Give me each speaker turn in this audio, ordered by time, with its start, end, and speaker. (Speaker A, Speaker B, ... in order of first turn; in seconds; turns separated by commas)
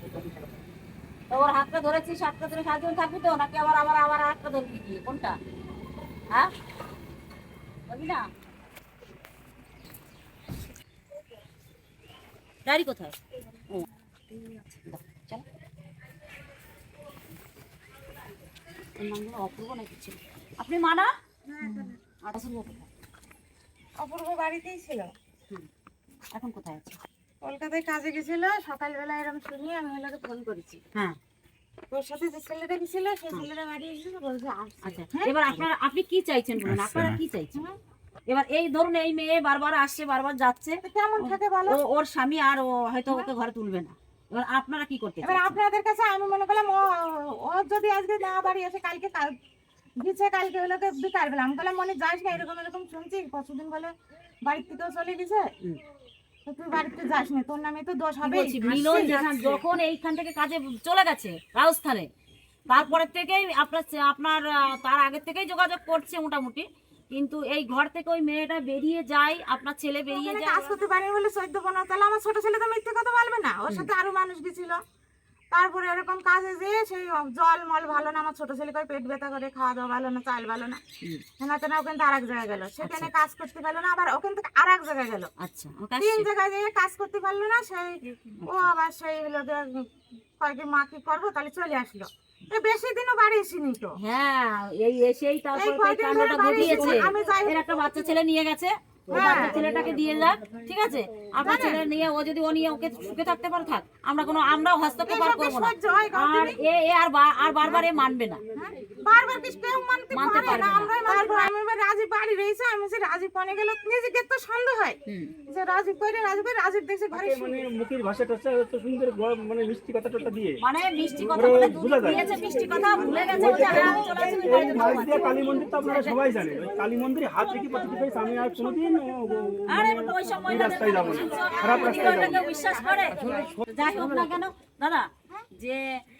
Speaker A: 1.3-5.4, Speaker A: 7.9-8.3, Speaker A: 12.7-13.2, Speaker A: 13.7-15.4, Speaker A: 19.0-21.1, Speaker B: 21.5-22.0, Speaker A: 21.6-22.9, Speaker B: 24.0-25.1, Speaker A: 26.3-27.0, Speaker B: 27.4-30.8, Speaker B: 31.9-35.6, Speaker A: 34.8-37.6, Speaker A: 38.3-45.6, Speaker B: 40.9-41.8, Speaker B: 45.2-49.4, Speaker B: 50.0-55.5, Speaker B: 56.5-59.2, Speaker A: 58.2-62.1, Speaker A: 62.7-70.8, Speaker B: 70.1-74.8, Speaker B: 75.5-80.8, Speaker B: 81.4-85.3, Speaker A: 82.8-83.1, Speaker A: 85.4-86.3, Speaker B: 86.0-89.9, Speaker A: 88.4-88.7, Speaker B: 90.4-94.0, Speaker A: 94.0-108.4, Speaker B: 95.5-97.6, Speaker B: 99.1-99.6, Speaker B: 101.4-101.8, Speaker B: 105.1-106.5, Speaker B: 108.6-115.0, Speaker A: 110.1-111.5, Speaker A: 115.1-115.3, Speaker B: 115.5-117.7, Speaker C: 117.1-120.6, Speaker A: 120.6-126.2, Speaker C: 121.2-122.2, Speaker C: 123.3-132.4, Speaker A: 129.7-135.8, Speaker B: 131.3-133.5, Speaker C: 133.3-133.6